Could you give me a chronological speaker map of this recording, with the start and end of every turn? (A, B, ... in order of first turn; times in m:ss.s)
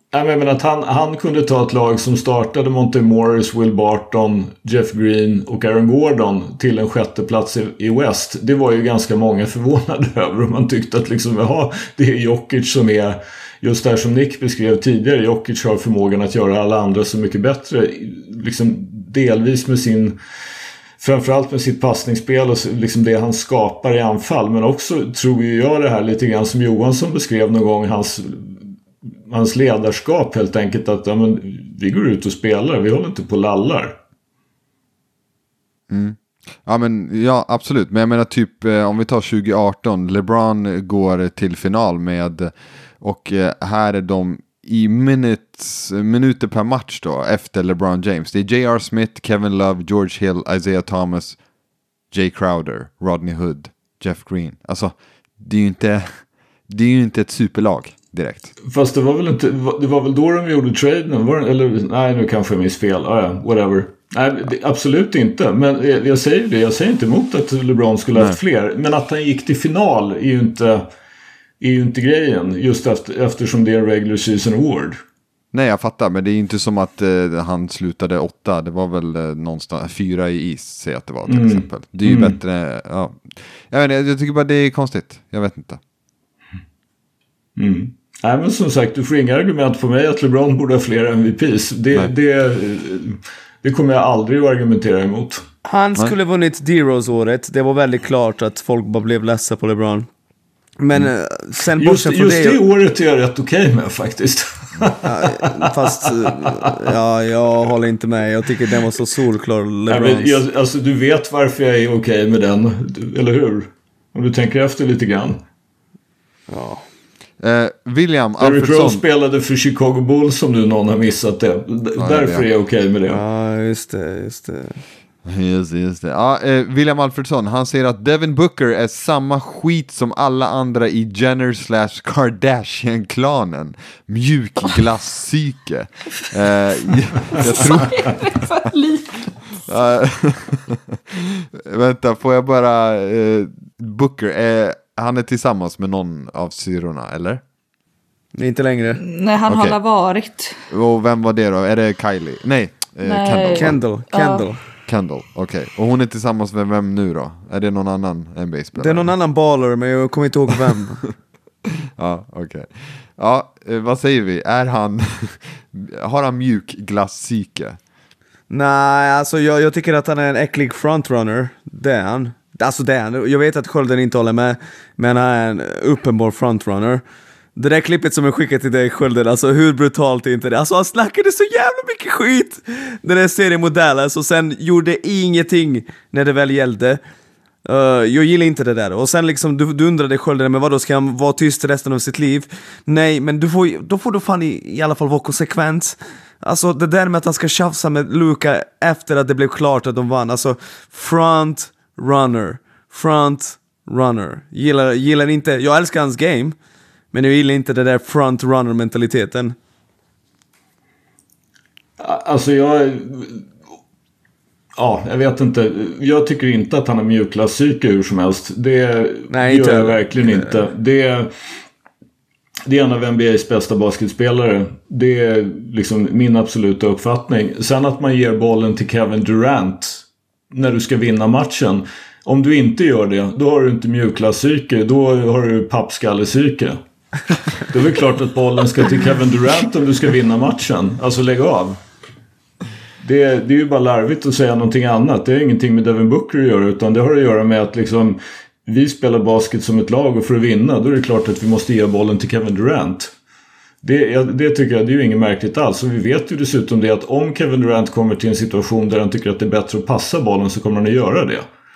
0:00.1-0:20.2 A
0:21.0-0:28.6 A
0:29.3-0:34.0 A
0:35.9-0:51.4 B
0:52.1-0:58.5 B
0:58.6-1:10.9 A
1:11.6-1:15.0 A
1:15.5-1:25.8 B
1:21.3-1:22.4 A
1:27.6-1:35.4 A
1:35.7-1:40.1 C
1:40.8-1:42.6 C
1:41.8-1:45.5 A
1:45.0-1:50.4 C
1:46.3-1:46.7 A
1:49.9-1:55.4 A
1:56.5-1:56.8 C
1:57.4-1:59.0 B
1:58.4-2:03.2 A
2:02.0-2:02.4 B
2:03.1-2:04.8 C
2:05.2-2:18.4 B
2:17.4-2:19.4 D
2:19.7-2:27.4 B
2:28.4-2:29.0 C
2:29.0-2:30.6 D
2:29.5-2:29.8 B
2:30.7-2:33.8 B
2:33.0-2:34.5 D
2:33.6-2:34.6 C
2:34.9-2:39.1 B
2:38.8-2:41.0 C
2:42.0-2:47.8 B
2:48.5-2:57.0 C
2:57.6-3:07.0 C
3:07.7-3:26.6 C
3:27.1-3:29.6 C
3:32.0-3:33.5 A
3:34.8-3:41.3 A
3:39.3-3:40.7 C
3:42.7-3:56.8 A
3:57.6-4:01.8 A
4:03.0-4:13.1 A
4:13.8-4:21.5 A